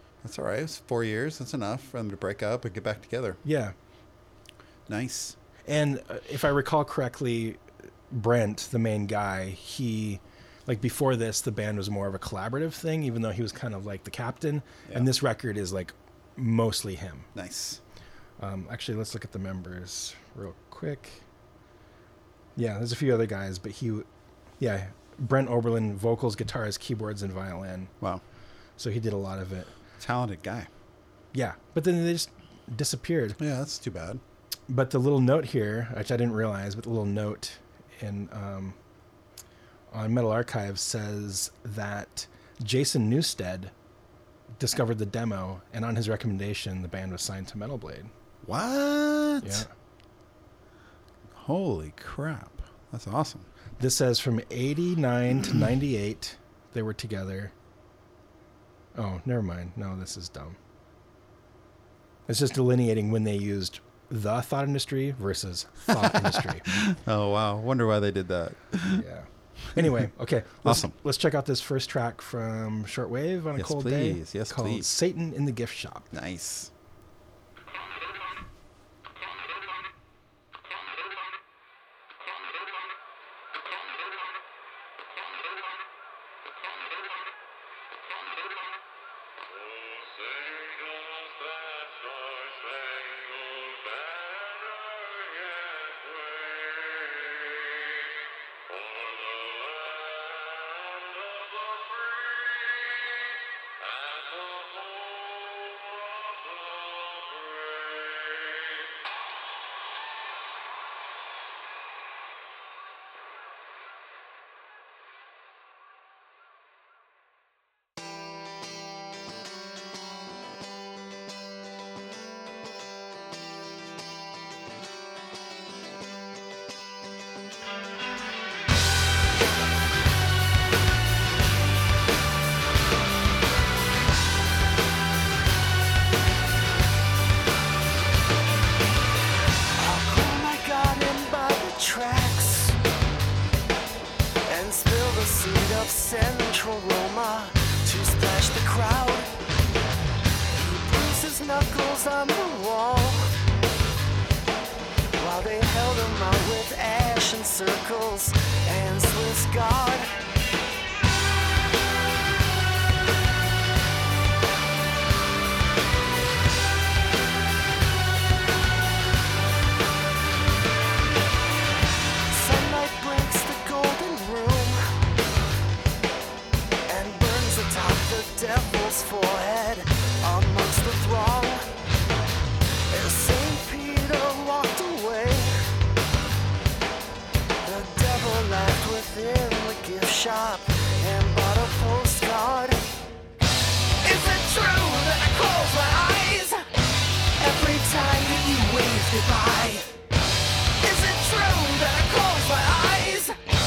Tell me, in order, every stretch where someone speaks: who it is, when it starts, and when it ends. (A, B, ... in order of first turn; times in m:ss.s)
0:00.2-0:03.4 A
0:03.4-0:03.7 B
0:04.9-0:05.4 A
0:05.7-0:17.3 B
0:17.3-0:17.8 A
0:18.4-0:21.2 B
0:22.6-0:24.1 B
0:24.6-0:27.9 B
0:28.8-0:29.8 B
0:30.0-0:30.7 A
0:31.3-0:33.4 B
0:33.4-0:34.2 A
0:34.7-0:38.8 B
0:39.9-0:43.7 B
0:44.6-0:48.1 B
0:48.4-0:49.6 A
0:49.4-0:49.7 B
0:51.3-0:53.5 A
0:53.8-0:57.5 B
0:58.9-1:00.6 B
1:02.3-1:06.8 B
1:06.1-1:09.0 A
1:08.9-1:16.1 B
1:10.6-1:10.9 A
1:13.6-1:14.9 A
1:16.1-1:16.7 A
2:19.8-2:22.8 C
2:24.5-2:29.3 C
2:30.5-2:33.3 C
2:35.2-2:40.1 C
2:52.3-2:54.8 C
2:56.9-3:01.6 C
3:02.9-3:05.6 C
3:07.6-3:12.8 C
3:14.0-3:16.6 C
3:17.4-3:19.9 C
3:20.8-3:23.4 C